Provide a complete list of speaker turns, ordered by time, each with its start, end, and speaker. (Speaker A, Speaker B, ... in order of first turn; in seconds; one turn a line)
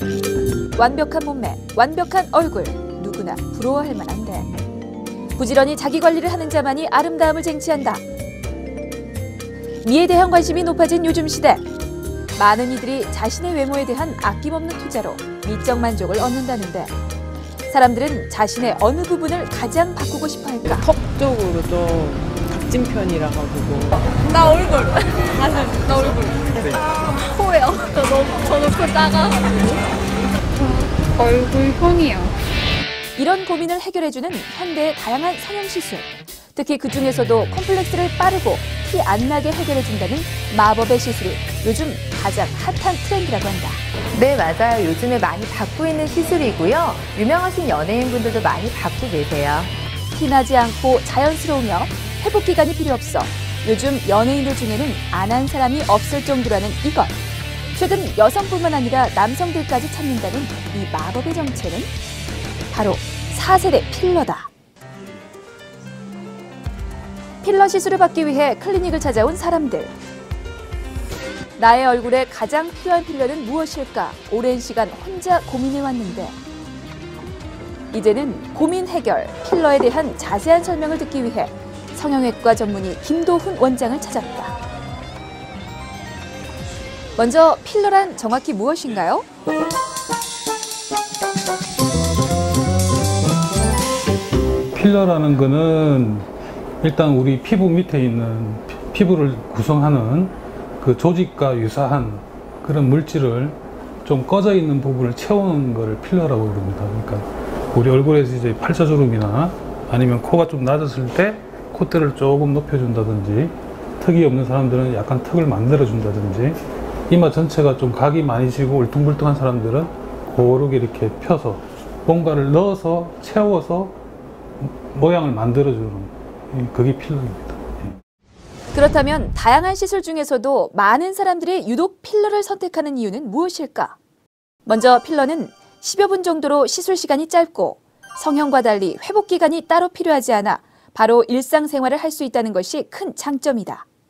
Speaker A: 0.8-4.5
Speaker A: 5.4-8.0
Speaker A: 9.8-11.7
Speaker A: 12.3-16.9
Speaker A: 17.7-20.9
Speaker B: 20.7-27.7
Speaker C: 24.2-26.3
Speaker C: 27.0-29.8
Speaker B: 29.5-29.8
Speaker C: 30.6-32.4
Speaker A: 33.2-43.8
Speaker D: 44.1-49.7
Speaker A: 50.1-57.2
Speaker A: 57.7-61.9
Speaker A: 62.7-64.5
Speaker A: 67.4-69.9
Speaker A: 71.6-76.4
Speaker A: 77.9-84.6
Speaker A: 87.2-89.3
Speaker E: 94.7-96.3
Speaker E: 96.8-124.0
Speaker E: 124.6-128.0
Speaker A: 128.7-134.0
Speaker A: 134.7-143.8